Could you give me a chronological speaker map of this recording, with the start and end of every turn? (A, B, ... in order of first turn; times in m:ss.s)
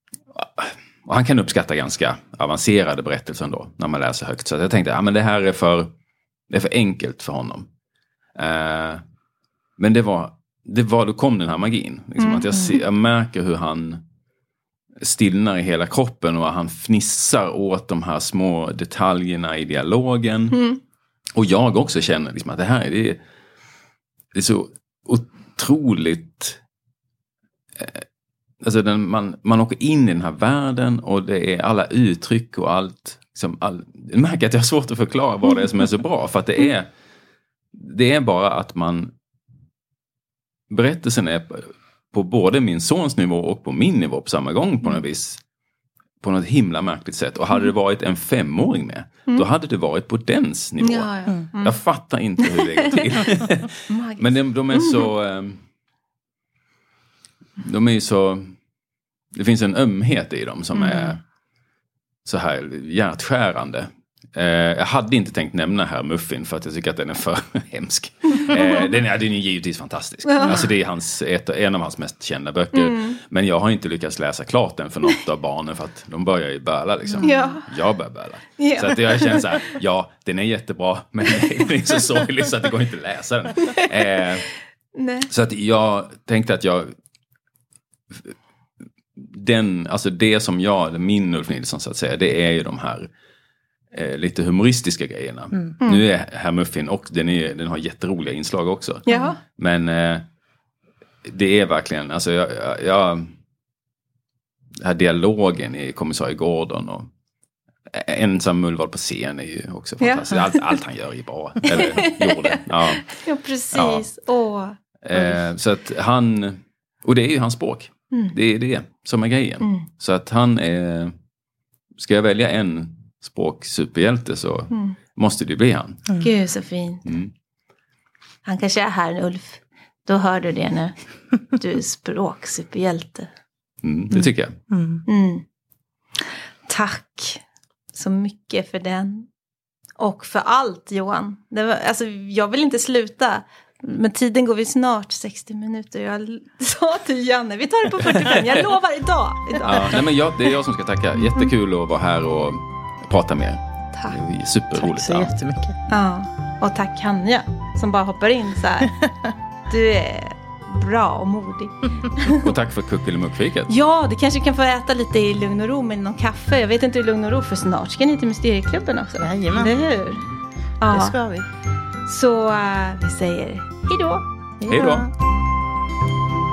0:00.3-0:05.9 A
0:06.5-0:07.7 A
0:08.4-0:09.0 A
0:09.8-0:14.0 A
0:12.2-0:12.8 B
0:15.0-0:20.6 A
0:20.5-0:20.8 B
0:21.3-0:23.2 A
0:24.3-0:26.6 A
0:27.8-0:28.0 A
0:28.6-0:36.9 A
0:37.7-0:39.1 A
0:40.7-0:45.4 A
0:46.2-0:55.6 A
0:50.8-0:51.8 B
0:52.4-0:53.2 B
0:53.9-0:55.1 B
0:57.6-0:58.5 A
0:59.3-1:01.2 A
1:00.7-1:01.1 B
1:02.2-1:24.5 A
1:08.4-1:08.7 B
1:10.3-1:10.7 B
1:12.7-1:13.2 B
1:17.2-1:17.7 B
1:18.6-1:19.7 B
1:23.6-1:23.9 B
1:24.9-1:25.3 B
1:25.3-1:26.9 A
1:29.2-1:33.1 A
1:33.9-1:40.2 A
1:39.1-1:39.4 B
1:41.2-1:43.3 A
1:44.8-1:47.1 A
1:47.9-1:53.1 A
1:50.0-1:50.6 B
1:51.6-1:54.8 B
1:53.7-1:54.0 A
1:55.0-2:01.1 A
2:02.0-2:06.2 A
2:04.7-2:05.0 B
2:06.2-2:07.0 B
2:07.0-2:07.3 A
2:08.4-2:11.0 B
2:11.5-2:13.3 B
2:13.8-2:14.6 A
2:14.7-2:15.0 C
2:15.1-2:15.4 B
2:16.7-2:19.3 B
2:20.0-2:30.0 B
2:29.6-2:35.3 A
2:34.8-2:35.8 C
2:35.9-2:39.0 B
2:39.0-2:39.3 C
2:39.7-2:42.5 B
2:42.2-2:43.7 A
2:43.7-2:50.3 B
2:49.2-2:49.8 C
2:50.8-2:51.2 B
2:50.9-2:51.5 C
2:52.0-2:55.0 B
2:54.6-2:55.1 C
2:54.7-2:55.0 A